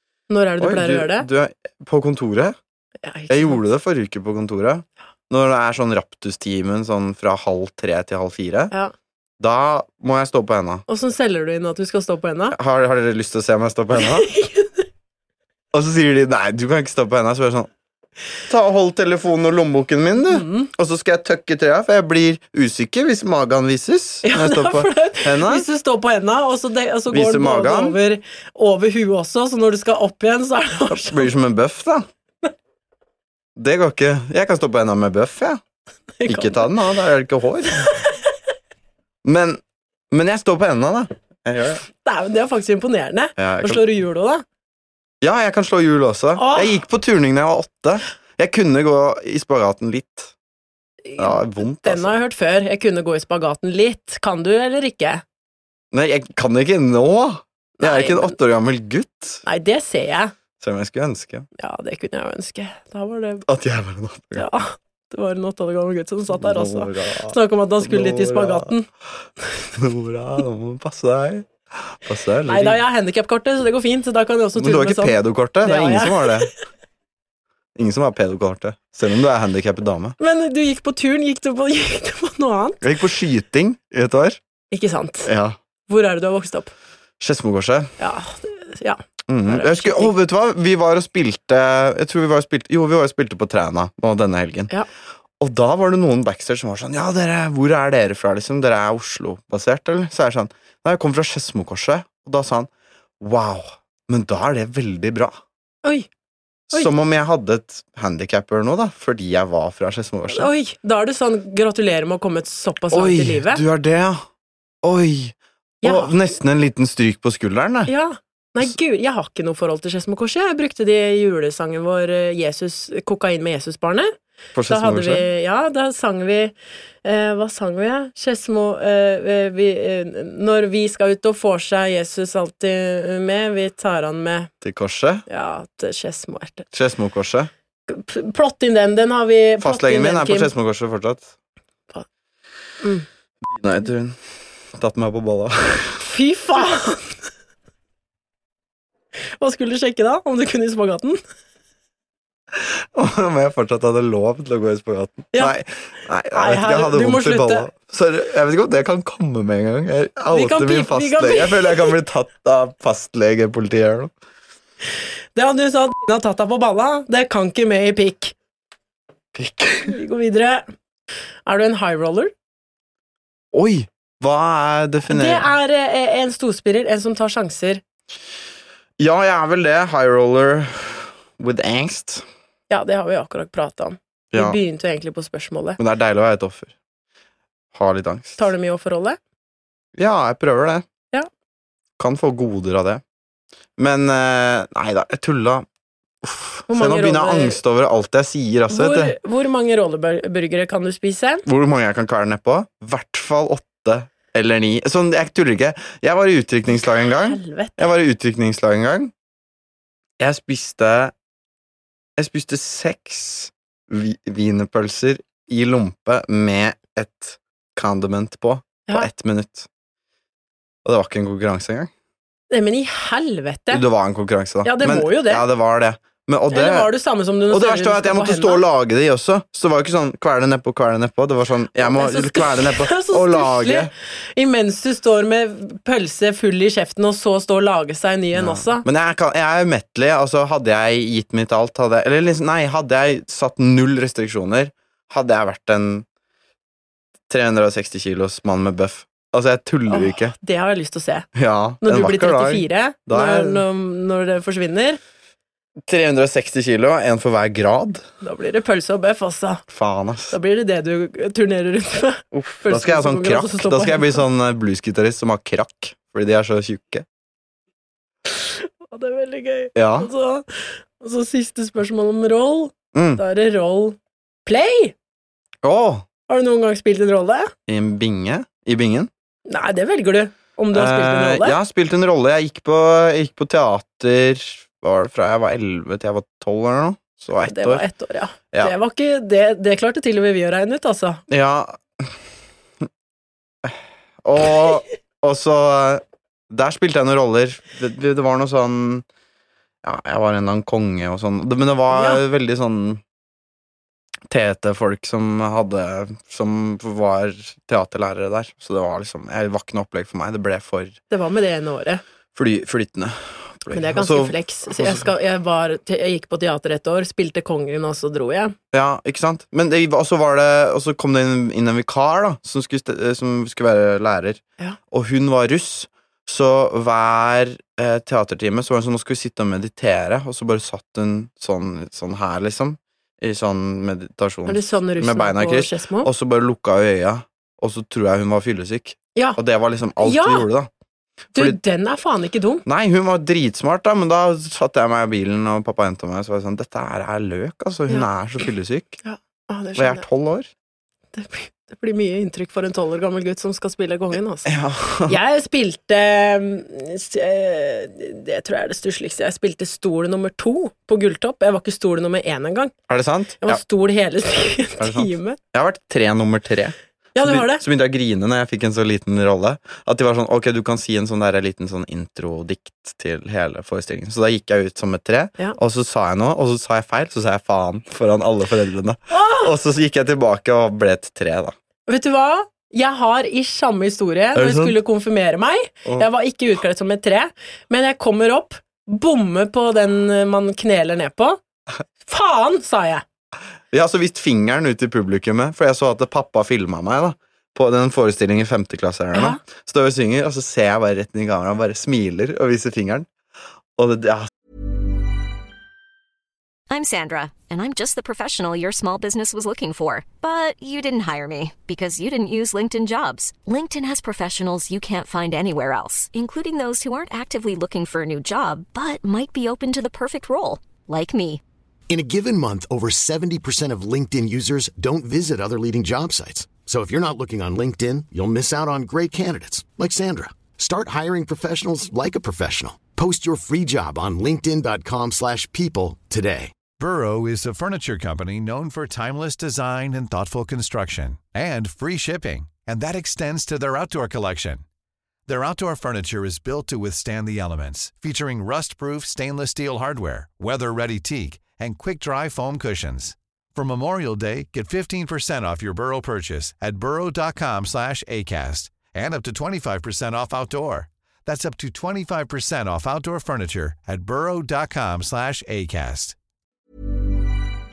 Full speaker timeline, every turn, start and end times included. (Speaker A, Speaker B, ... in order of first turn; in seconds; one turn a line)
Speaker A: 0.3-1.3
Speaker B: 0.6-2.6
Speaker A: 3.0-3.6
Speaker B: 3.3-8.7
Speaker B: 9.4-10.8
Speaker A: 10.9-12.6
Speaker B: 12.5-14.3
Speaker A: 14.0-14.8
Speaker B: 15.7-17.7
Speaker B: 18.5-25.7
Speaker A: 20.2-20.7
Speaker A: 24.2-31.3
Speaker B: 27.1-28.0
Speaker B: 30.9-32.1
Speaker B: 33.5-35.6
Speaker A: 36.2-36.7
Speaker B: 36.2-37.9
Speaker B: 39.2-41.8
Speaker A: 42.0-44.4
Speaker B: 43.4-43.8
Speaker B: 45.2-50.3
Speaker A: 46.4-46.8
Speaker A: 51.0-55.2
Speaker B: 51.2-52.1
Speaker B: 55.9-59.4
Speaker A: 57.8-58.4
Speaker A: 59.4-60.3
Speaker B: 60.6-61.5
Speaker A: 61.6-63.5
Speaker B: 63.4-64.5
Speaker A: 64.3-68.9
Speaker B: 66.3-68.7
Speaker B: 69.7-72.8
Speaker A: 72.5-76.5
Speaker B: 74.5-76.5
Speaker B: 77.8-80.2
Speaker A: 80.2-82.8
Speaker B: 82.8-84.4
Speaker A: 84.7-85.3
Speaker B: 85.2-85.6
Speaker A: 85.9-86.7
Speaker B: 87.2-87.9
Speaker A: 88.0-90.1
Speaker B: 89.3-94.7
Speaker B: 95.4-105.4
Speaker B: 106.7-110.5
Speaker A: 110.3-113.6
Speaker B: 112.9-114.2
Speaker B: 114.8-117.9
Speaker A: 115.8-116.2
Speaker A: 117.9-124.1
Speaker B: 124.5-125.2
Speaker A: 124.7-134.5
Speaker B: 134.6-135.2
Speaker A: 135.3-136.7
Speaker B: 136.7-137.5
Speaker A: 137.9-140.5
Speaker B: 139.6-141.3
Speaker B: 143.4-146.1
Speaker A: 146.0-147.2
Speaker A: 149.4-151.2
Speaker B: 152.5-164.1
Speaker A: 156.3-157.7
Speaker A: 160.3-162.0
Speaker A: 165.3-168.3
Speaker B: 169.3-169.9
Speaker A: 169.8-170.7
Speaker A: 171.4-172.3
Speaker B: 173.5-175.5
Speaker A: 175.0-177.8
Speaker B: 179.0-182.3
Speaker A: 182.7-185.8
Speaker B: 184.3-184.6
Speaker B: 185.8-186.7
Speaker B: 187.7-188.4
Speaker A: 188.4-189.2
Speaker B: 189.9-190.8
Speaker B: 192.0-193.0
Speaker B: 193.8-195.7
Speaker B: 196.2-199.2
Speaker A: 196.7-197.6
Speaker A: 198.7-201.4
Speaker B: 201.4-209.1
Speaker A: 206.7-207.8
Speaker B: 210.2-211.1
Speaker B: 212.2-219.7
Speaker B: 220.8-221.9
Speaker A: 222.5-223.8
Speaker B: 223.7-226.9
Speaker A: 224.6-225.4
Speaker A: 226.5-228.6
Speaker B: 227.5-233.9
Speaker A: 231.8-238.8
Speaker B: 238.3-246.1
Speaker B: 247.3-250.3
Speaker A: 249.9-251.3
Speaker B: 251.3-253.6
Speaker A: 251.8-255.0
Speaker B: 255.8-258.0
Speaker A: 258.2-259.6
Speaker B: 259.7-260.4
Speaker A: 260.3-264.2
Speaker B: 262.3-267.0
Speaker A: 268.3-274.9
Speaker B: 269.7-270.1
Speaker B: 272.9-273.2
Speaker B: 275.6-276.1
Speaker A: 276.3-277.5
Speaker B: 277.7-279.1
Speaker A: 279.5-281.6
Speaker B: 280.7-287.9
Speaker A: 287.4-291.2
Speaker B: 291.3-292.2
Speaker B: 293.6-299.1
Speaker B: 299.8-303.0
Speaker A: 301.9-302.2
Speaker B: 304.3-310.9
Speaker A: 311.1-312.0
Speaker B: 312.3-315.1
Speaker A: 313.7-318.5
Speaker B: 318.7-340.7
Speaker A: 334.4-336.1
Speaker A: 340.0-340.5
Speaker A: 341.3-342.6
Speaker B: 342.6-349.0
Speaker A: 349.0-350.1
Speaker B: 349.8-350.5
Speaker A: 351.1-354.5
Speaker B: 354.4-355.2
Speaker A: 355.1-362.7
Speaker B: 362.9-363.6
Speaker A: 363.4-365.4
Speaker B: 364.8-381.5
Speaker A: 367.1-367.6
Speaker A: 379.1-379.5
Speaker A: 381.9-391.4
Speaker B: 384.3-384.8
Speaker A: 392.1-393.0
Speaker B: 393.7-403.1
Speaker A: 399.1-399.4
Speaker B: 403.8-404.3
Speaker C: 406.7-421.4
Speaker D: 421.9-436.5
Speaker E: 436.8-444.6
Speaker E: 445.3-466.1